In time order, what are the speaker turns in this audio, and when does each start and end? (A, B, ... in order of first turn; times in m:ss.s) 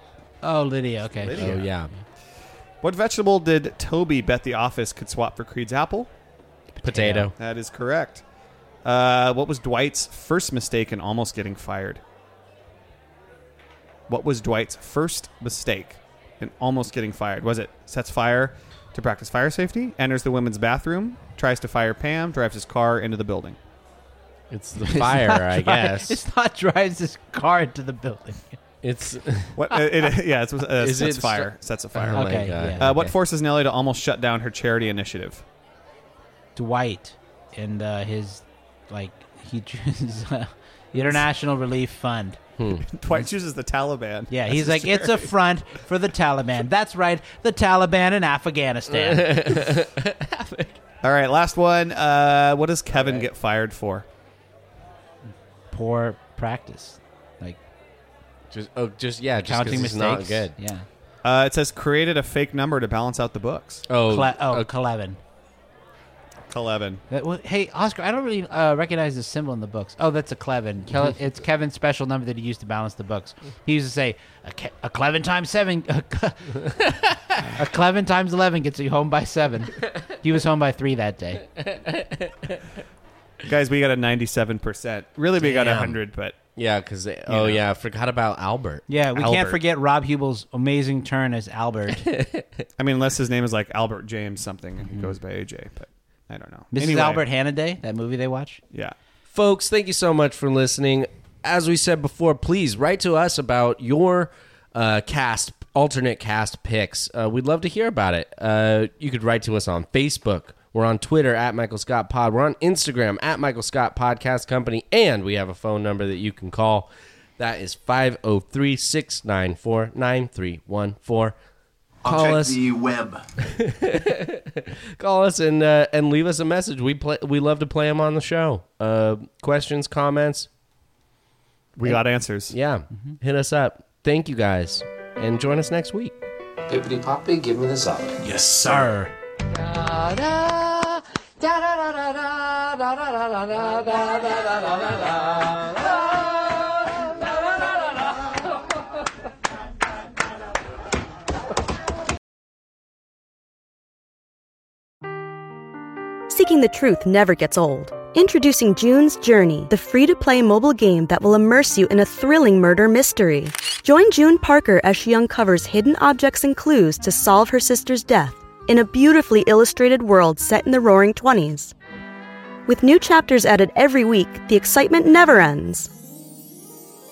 0:00.4-0:01.6 A
0:01.2-0:01.7 B
0:01.3-0:01.9 C
0:02.8-0:06.1 B
0:06.8-0:07.3 A
0:06.8-0:07.3 C
0:07.3-0:08.2 B
0:08.8-0:12.0 B
0:14.1-0:23.6 B
0:24.5-0:26.2 C
0:24.8-0:28.6 A
0:28.8-0:29.6 C
0:29.5-0:35.4 B
0:30.8-0:33.1 C
0:32.1-0:32.9 A
0:36.6-0:42.4 A
0:42.6-0:42.9 C
0:42.8-0:45.3 B
0:44.3-0:49.4 A
0:48.9-0:50.8 C
0:51.0-0:54.0 B
0:53.0-0:53.2 C
0:55.7-0:57.6 A
0:58.5-1:00.5 C
0:59.4-1:00.9 A
1:01.2-1:03.8 B
1:03.9-1:04.7 C
1:04.1-1:05.2 A
1:06.5-1:07.0 B
1:07.1-1:21.4 A
1:21.5-1:22.6 C
1:23.4-1:26.4 B
1:25.4-1:26.0 C
1:26.5-1:28.9 C
1:27.3-1:27.6 B
1:28.9-1:32.1 A
1:29.1-1:29.6 B
1:32.0-1:32.6 C
1:32.8-1:37.2 B
1:36.7-1:38.6 A
1:39.3-2:01.3 C
2:02.0-2:02.7 C
2:02.0-2:03.2 D
2:03.4-2:10.5 C
2:11.8-2:12.5 B
2:11.8-2:16.1 C
2:16.7-2:18.8 D
2:18.6-2:19.1 A
2:23.3-2:26.2 D
2:36.3-2:51.7 E
2:52.7-2:55.9 E